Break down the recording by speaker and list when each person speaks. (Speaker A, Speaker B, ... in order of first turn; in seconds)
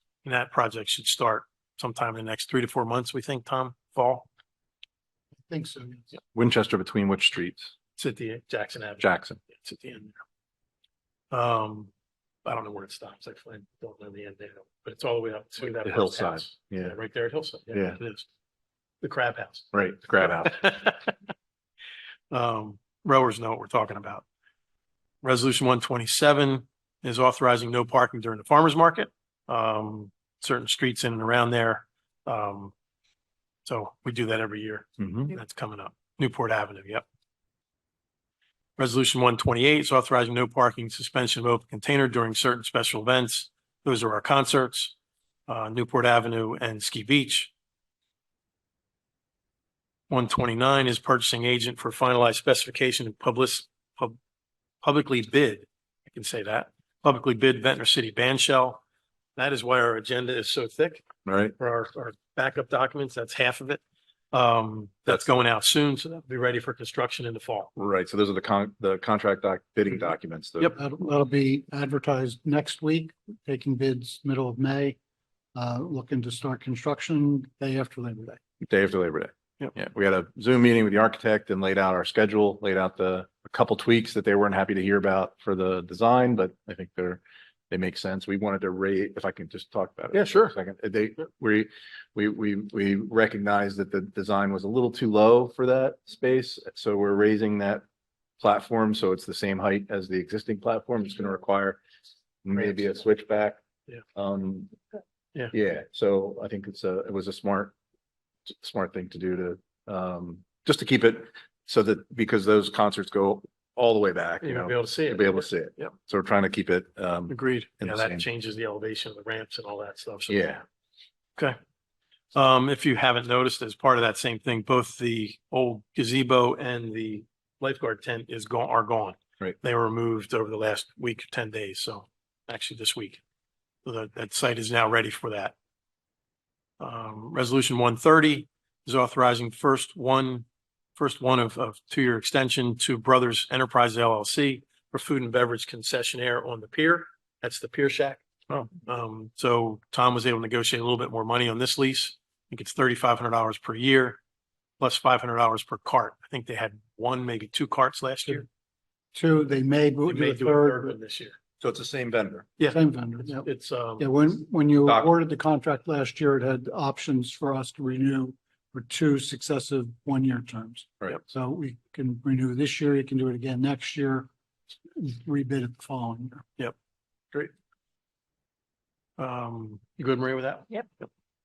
Speaker A: 0.2-4.3, 8.0-10.2, 11.3-11.9, 12.4-18.3, 19.0-21.1, 22.3-24.2, 25.2-32.7, 33.6-37.0, 38.8-44.9, 45.5-47.5, 50.1-54.1, 54.8-58.8, 59.4-61.0, 61.6-63.8, 64.3-67.7, 90.1-90.5, 114.4-115.9, 117.3-120.5, 122.3-133.2, 133.8-135.5, 136.8-148.2, 148.8-154.2, 154.8-158.5, 160.1-161.3, 162.6-164.1, 179.2-181.1
Speaker B: 5.5-6.1, 70.8-75.0, 75.5-78.4, 159.1-161.0, 162.7-174.3, 174.9-176.4
Speaker C: 6.3-7.7, 9.0-9.4, 15.8-17.0, 17.7-18.0, 19.7-20.8, 35.0-35.3, 61.2-61.5, 65.1-65.3, 67.8-70.8, 78.6-97.8, 98.4-101.8, 102.4-103.6, 104.1-104.7, 105.5-107.7, 108.5-118.2, 120.3-120.6, 161.6-162.5, 164.8-165.1